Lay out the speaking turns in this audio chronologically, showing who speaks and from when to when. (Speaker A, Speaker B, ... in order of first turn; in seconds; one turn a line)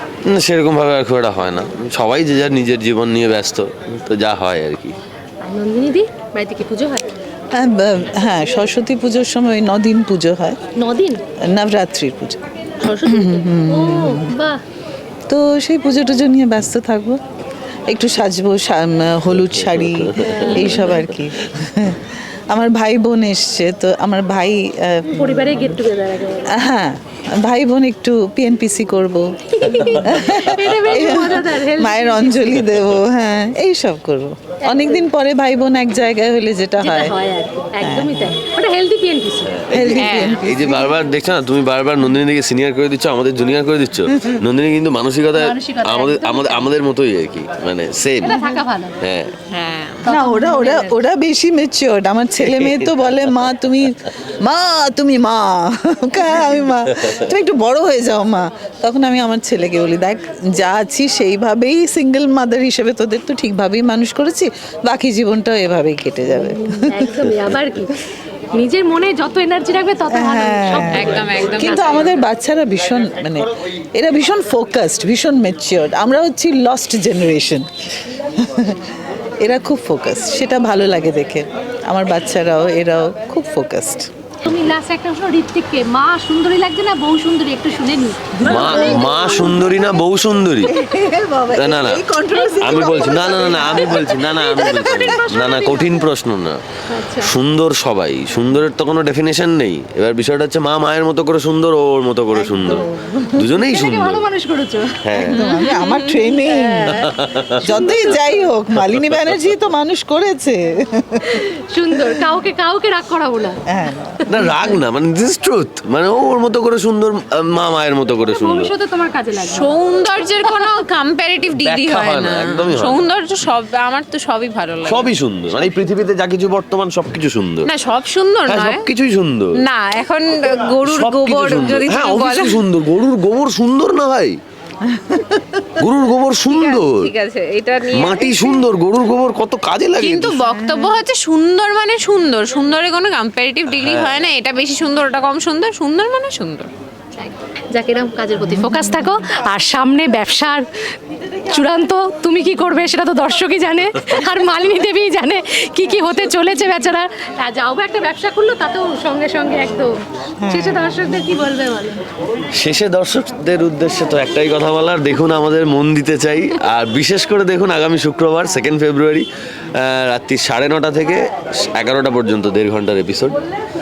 Speaker A: 0.3-5.0
Speaker B: 5.4-7.1
Speaker C: 7.5-10.6
Speaker B: 10.8-11.2
Speaker C: 11.5-12.4
Speaker B: 12.8-14.6
Speaker C: 13.0-14.3
Speaker C: 15.3-17.2
Speaker C: 17.9-25.6
Speaker A: 19.4-21.1
Speaker B: 20.2-20.9
Speaker B: 25.1-26.6
Speaker C: 26.5-37.1
Speaker B: 29.5-32.6
Speaker A: 30.2-31.4
Speaker A: 32.6-33.0
Speaker B: 34.6-35.1
Speaker B: 36.8-39.6
Speaker C: 37.8-38.4
Speaker A: 39.5-48.4
Speaker C: 39.7-40.9
Speaker D: 40.0-40.4
Speaker B: 45.3-46.7
Speaker B: 48.2-49.0
Speaker A: 49.0-49.3
Speaker D: 49.5-50.1
Speaker B: 50.1-50.9
Speaker C: 50.1-67.2
Speaker A: 52.4-52.9
Speaker B: 66.3-68.0
Speaker B: 68.5-72.2
Speaker C: 70.1-77.7
Speaker D: 70.9-72.1
Speaker C: 78.4-78.9
Speaker C: 79.4-84.1
Speaker B: 84.5-89.6
Speaker A: 88.4-90.7
Speaker C: 88.4-89.6
Speaker C: 90.7-95.1
Speaker A: 91.5-92.0
Speaker B: 92.3-96.1
Speaker A: 92.6-96.6
Speaker B: 96.9-97.3
Speaker A: 97.2-102.8
Speaker C: 102.3-103.4
Speaker A: 103.4-104.2
Speaker B: 103.6-105.2
Speaker A: 105.0-105.4
Speaker C: 105.2-107.1
Speaker D: 105.3-106.3
Speaker B: 106.3-108.4
Speaker A: 106.9-107.5
Speaker C: 107.6-111.4
Speaker A: 108.9-109.3
Speaker B: 111.2-113.6
Speaker C: 113.7-114.2
Speaker A: 114.3-118.7
Speaker B: 114.3-114.7
Speaker B: 118.3-119.7
Speaker D: 119.4-125.1
Speaker B: 120.5-120.7
Speaker A: 121.6-123.0
Speaker A: 124.8-127.7
Speaker D: 127.7-128.8
Speaker A: 128.5-129.6
Speaker D: 129.6-132.6
Speaker A: 130.8-134.4
Speaker C: 134.9-135.7
Speaker A: 135.8-137.1
Speaker D: 136.5-138.7
Speaker A: 137.9-140.5
Speaker D: 140.0-146.7
Speaker C: 140.6-140.9
Speaker A: 143.7-144.2
Speaker B: 147.2-150.7
Speaker B: 151.5-159.9
Speaker C: 160.4-161.1
Speaker B: 160.5-162.0
Speaker A: 162.6-173.4